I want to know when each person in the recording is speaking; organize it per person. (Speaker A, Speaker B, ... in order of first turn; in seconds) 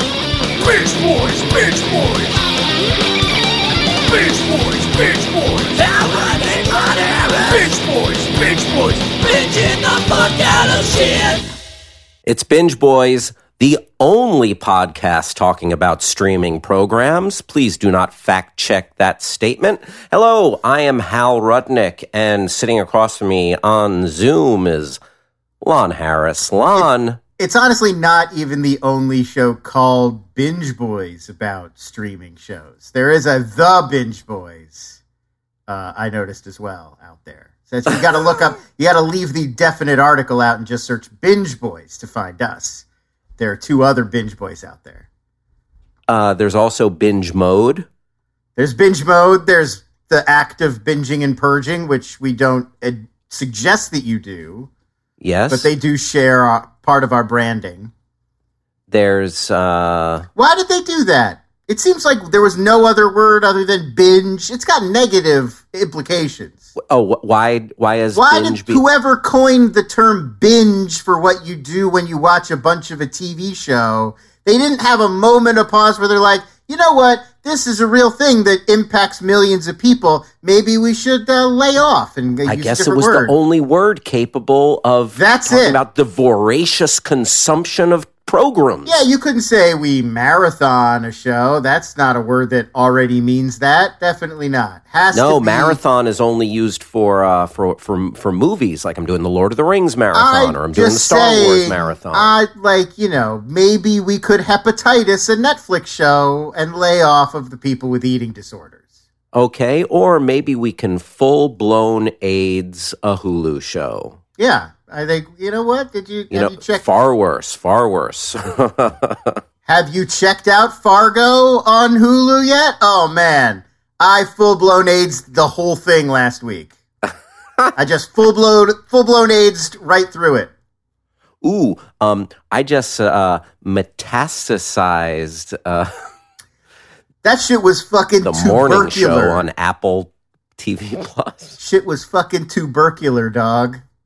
Speaker A: 0.6-2.3, 4.0-11.5
Speaker B: 12.3-25.0, 25.6-27.2, 46.1-47.9, 55.2-55.7, 58.9-60.3, 66.9-68.8, 82.5-89.0, 95.1-102.3, 109.3-114.2, 116.3-119.4, 131.4-135.9, 138.2-141.6
Speaker C: 27.4-35.0, 35.7-42.8, 43.4-45.0, 48.6-54.7, 55.5-57.9, 60.4-66.6, 68.1-83.3, 85.1-85.8, 88.8-95.8, 100.1-108.8, 114.4-116.9, 119.7-126.7, 127.8-130.5, 137.2-139.4, 141.6-143.8